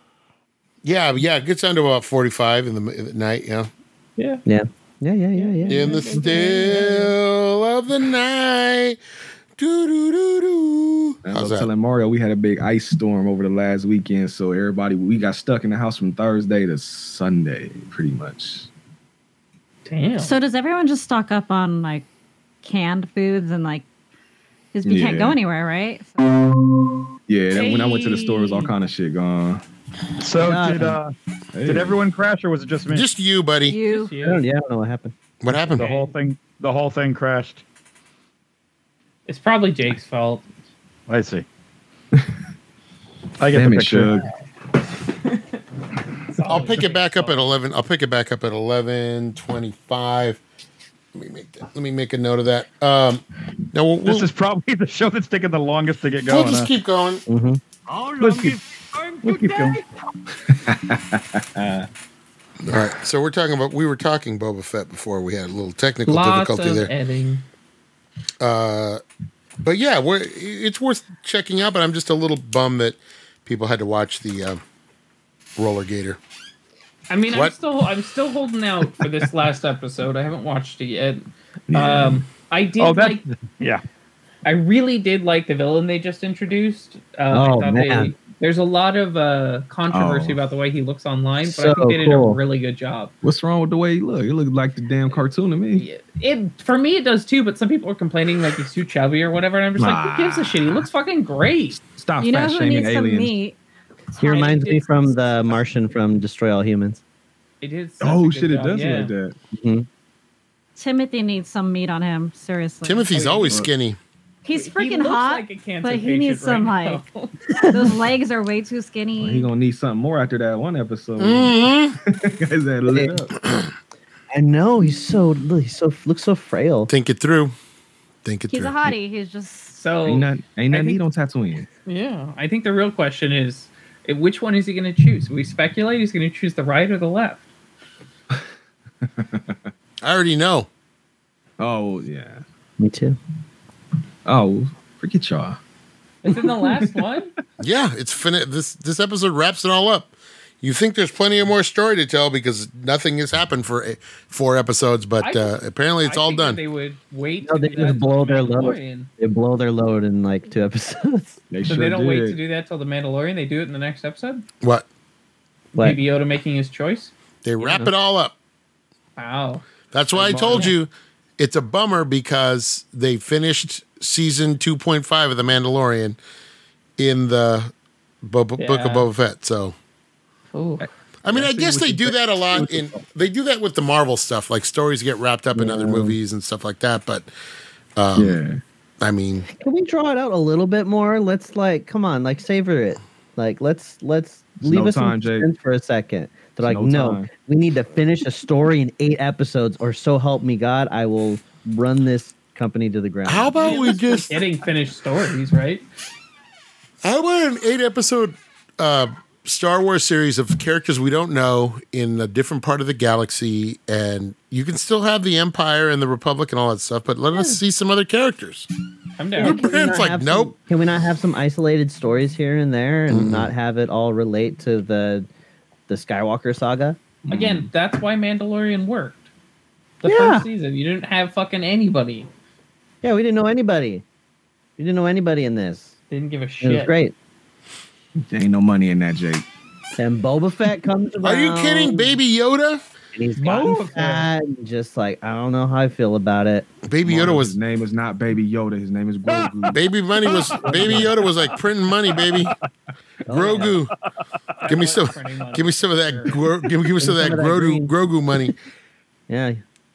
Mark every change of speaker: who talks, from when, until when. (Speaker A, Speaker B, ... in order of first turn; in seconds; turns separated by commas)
Speaker A: 0.8-3.7, Speaker B: 4.2-4.4, Speaker C: 4.5-6.0, Speaker B: 5.3-7.1, Speaker A: 5.7-9.0, Speaker A: 9.6-11.7, Speaker D: 11.2-18.7, Speaker B: 19.9-20.4, Speaker E: 20.2-22.1, Speaker E: 22.6-23.9, Speaker E: 24.7-26.1, Speaker D: 24.8-25.4, Speaker D: 27.3-29.6, Speaker B: 27.5-28.7, Speaker F: 30.2-33.1, Speaker C: 30.4-31.0, Speaker D: 31.5-32.0, Speaker A: 32.9-33.8, Speaker E: 33.7-34.1, Speaker B: 33.8-34.4, Speaker C: 34.2-35.1, Speaker A: 35.4-35.9, Speaker F: 35.7-37.6, Speaker B: 35.8-36.1, Speaker B: 39.3-40.5, Speaker F: 41.1-41.5, Speaker F: 43.4-44.2, Speaker D: 43.5-44.3, Speaker B: 45.2-45.6, Speaker B: 46.3-47.5, Speaker A: 46.5-50.4, Speaker A: 51.1-54.3, Speaker F: 54.0-56.7, Speaker A: 56.3-57.2, Speaker C: 57.3-57.6, Speaker F: 58.2-58.6, Speaker F: 59.2-59.8, Speaker D: 60.4-61.9, Speaker A: 62.7-66.9, Speaker D: 62.7-63.0, Speaker B: 66.1-67.4, Speaker A: 68.4-69.0, Speaker A: 69.6-74.6, Speaker A: 75.6-76.2, Speaker B: 77.1-83.2, Speaker D: 81.7-82.3, Speaker F: 82.8-83.8, Speaker B: 84.5-93.1, Speaker C: 87.3-88.1, Speaker D: 89.9-90.4, Speaker C: 91.4-92.4, Speaker D: 93.2-95.9, Speaker B: 95.7-101.8, Speaker D: 99.8-100.9, Speaker D: 101.8-103.3, Speaker E: 102.2-103.6, Speaker E: 104.1-105.1, Speaker C: 104.2-107.0, Speaker B: 107.6-109.1, Speaker D: 108.0-109.4, Speaker C: 109.5-109.9, Speaker E: 110.8-113.1, Speaker A: 112.8-114.0, Speaker B: 113.1-113.7, Speaker E: 114.4-117.0, Speaker B: 114.5-117.3, Speaker C: 117.6-117.8, Speaker E: 117.7-119.5, Speaker D: 119.2-123.3, Speaker A: 121.2-122.0, Speaker C: 122.9-123.3, Speaker C: 124.3-126.9, Speaker A: 126.9-127.5, Speaker A: 128.2-128.9, Speaker E: 128.5-130.0, Speaker B: 129.8-131.0, Speaker D: 130.1-131.7, Speaker B: 131.9-137.4, Speaker D: 139.0-139.6, Speaker A: 140.0-140.7, Speaker D: 141.6-142.4, Speaker C: 142.8-143.2, Speaker D: 144.3-145.6, Speaker B: 146.2-147.3, Speaker D: 146.3-146.9, Speaker A: 147.6-156.6, Speaker B: 155.2-159.1, Speaker C: 157.4-161.4, Speaker D: 161.5-162.4, Speaker B: 161.7-164.5, Speaker C: 165.7-166.0, Speaker B: 165.8-167.1, Speaker A: 167.4-168.3, Speaker B: 169.2-169.7, Speaker A: 169.9-176.2, Speaker F: 170.4-170.7, Speaker B: 170.5-170.7, Speaker A: 177.0-177.7, Speaker A: 178.2-179.8, Speaker B: 178.6-179.1, Speaker B: 180.5-180.9, Speaker D: 180.8-183.0, Speaker A: 181.2-187.3, Speaker C: 185.6-186.2, Speaker A: 188.0-188.4, Speaker D: 188.2-188.6, Speaker A: 189.0-189.5, Speaker C: 189.5-203.5, Speaker D: 194.6-195.5, Speaker D: 196.6-197.3, Speaker A: 203.3-204.4, Speaker B: 203.6-205.8, Speaker A: 207.0-218.7, Speaker B: 219.2-219.7, Speaker C: 219.4-225.3, Speaker A: 219.4-220.5, Speaker A: 223.1-223.5, Speaker C: 225.9-227.0, Speaker D: 227.2-227.7, Speaker B: 227.3-229.3, Speaker B: 230.0-232.3, Speaker C: 230.1-230.5, Speaker C: 233.0-234.0, Speaker C: 234.8-235.9, Speaker B: 236.1-236.9, Speaker C: 236.6-237.1, Speaker D: 238.3-239.4, Speaker C: 240.0-242.2, Speaker A: 241.2-242.8, Speaker C: 243.2-246.7, Speaker F: 243.4-244.3, Speaker A: 246.9-247.6, Speaker D: 247.1-249.8, Speaker F: 249.3-249.7, Speaker A: 249.7-252.5, Speaker F: 250.3-251.5, Speaker C: 250.6-251.1, Speaker F: 252.1-252.5, Speaker C: 253.3-253.8, Speaker A: 253.3-253.9, Speaker B: 254.6-256.5, Speaker A: 254.7-258.6, Speaker C: 257.0-257.9, Speaker C: 259.3-259.6